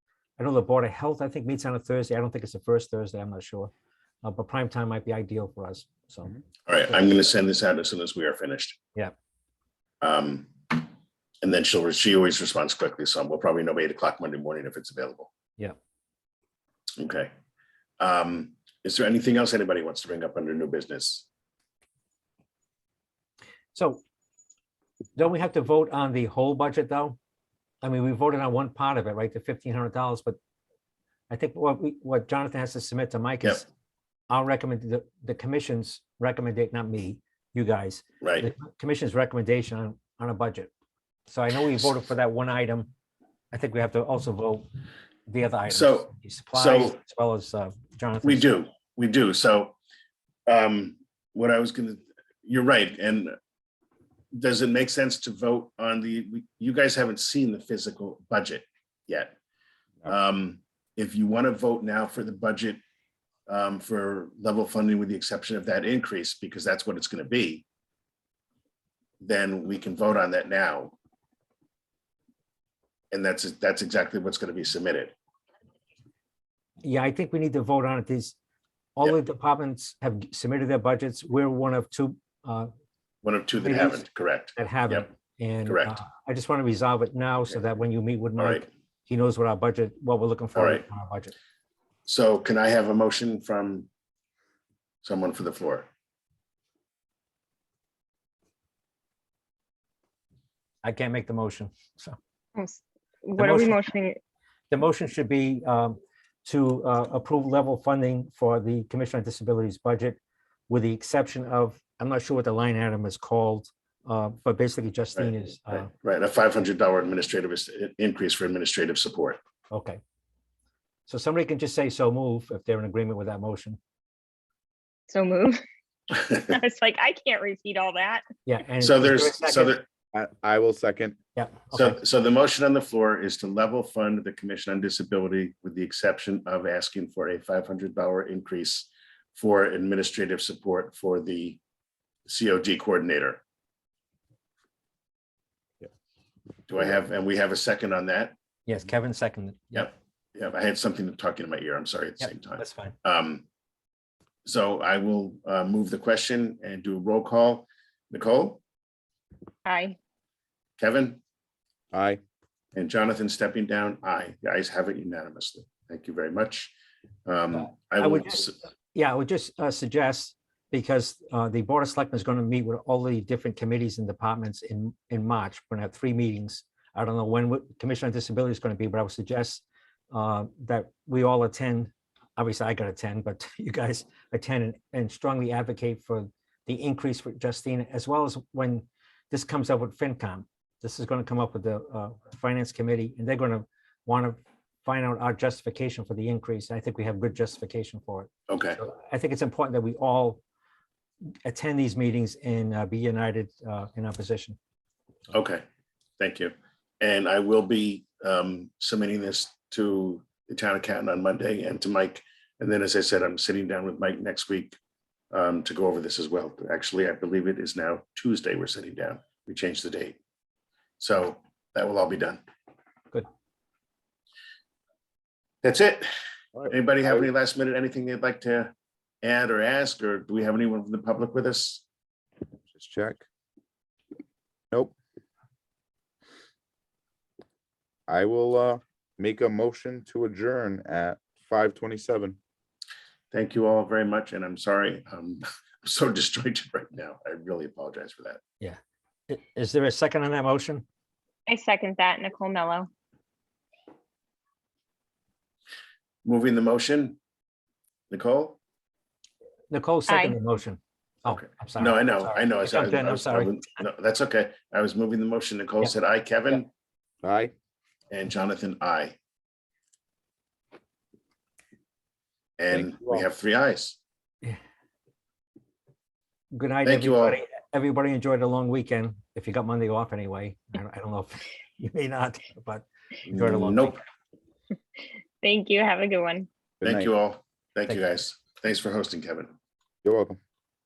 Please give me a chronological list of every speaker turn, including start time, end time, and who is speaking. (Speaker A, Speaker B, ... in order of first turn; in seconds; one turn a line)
Speaker A: 0.4-3.7
Speaker A: 4.2-6.3
Speaker B: 6.7-8.8
Speaker B: 10.0-10.9
Speaker B: 11.4-15.3
Speaker B: 17.0-17.3
Speaker B: 18.0-21.3
Speaker A: 23.8-24.0
Speaker A: 25.2-27.2
Speaker A: 27.8-30.4
Speaker A: 31.3-33.7
Speaker A: 34.3-40.7
Speaker B: 38.2-38.5
Speaker A: 41.3-42.9
Speaker A: 43.5-44.7
Speaker A: 45.3-48.5
Speaker B: 45.7-47.0
Speaker B: 48.2-49.8
Speaker B: 50.5-53.4
Speaker B: 54.4-59.4
Speaker B: 60.1-62.8
Speaker B: 63.5-67.7
Speaker B: 69.2-70.9
Speaker B: 73.1-75.1
Speaker A: 76.8-78.4
Speaker A: 79.0-82.7
Speaker B: 83.2-85.1
Speaker A: 83.6-91.3
Speaker B: 85.7-86.0
Speaker B: 88.4-88.6
Speaker B: 90.5-90.8
Speaker B: 92.1-93.9
Speaker B: 95.0-95.9
Speaker A: 100.8-102.2
Speaker C: 102.6-104.2
Speaker A: 103.4-103.8
Speaker A: 104.7-110.2
Speaker A: 110.7-115.9
Speaker B: 115.2-119.4
Speaker A: 119.7-120.0
Speaker A: 121.1-123.8
Speaker C: 125.1-125.6
Speaker C: 126.3-128.2
Speaker A: 128.5-129.8
Speaker B: 128.8-129.9
Speaker D: 130.1-131.2
Speaker A: 131.4-132.0
Speaker B: 131.7-141.6
Speaker B: 142.3-143.4
Speaker B: 146.7-148.3
Speaker A: 148.7-149.9
Speaker B: 149.8-153.4
Speaker A: 152.2-153.0
Speaker B: 154.4-158.6
Speaker C: 159.7-160.0
Speaker B: 160.8-161.2
Speaker D: 161.9-162.2
Speaker B: 162.8-166.7
Speaker B: 167.3-168.5
Speaker A: 167.7-200.4
Speaker B: 198.5-198.8
Speaker A: 201.4-204.6
Speaker B: 205.3-205.6
Speaker B: 206.2-214.8
Speaker B: 215.3-220.2
Speaker B: 221.0-222.4
Speaker B: 225.6-226.1
Speaker B: 226.7-231.8
Speaker D: 232.7-233.2
Speaker D: 238.1-242.4
Speaker B: 243.3-248.4
Speaker A: 248.6-250.8
Speaker C: 251.5-252.9
Speaker B: 256.2-257.2
Speaker B: 258.1-258.6
Speaker A: 259.7-263.6
Speaker C: 260.1-260.4
Speaker B: 261.3-266.7
Speaker D: 267.2-267.5
Speaker B: 268.1-269.2
Speaker B: 272.6-274.0
Speaker D: 272.7-273.2
Speaker A: 276.5-284.0
Speaker B: 276.8-277.4
Speaker B: 283.3-284.0
Speaker C: 285.4-286.5
Speaker B: 286.8-289.5
Speaker D: 286.8-287.1
Speaker D: 290.0-290.4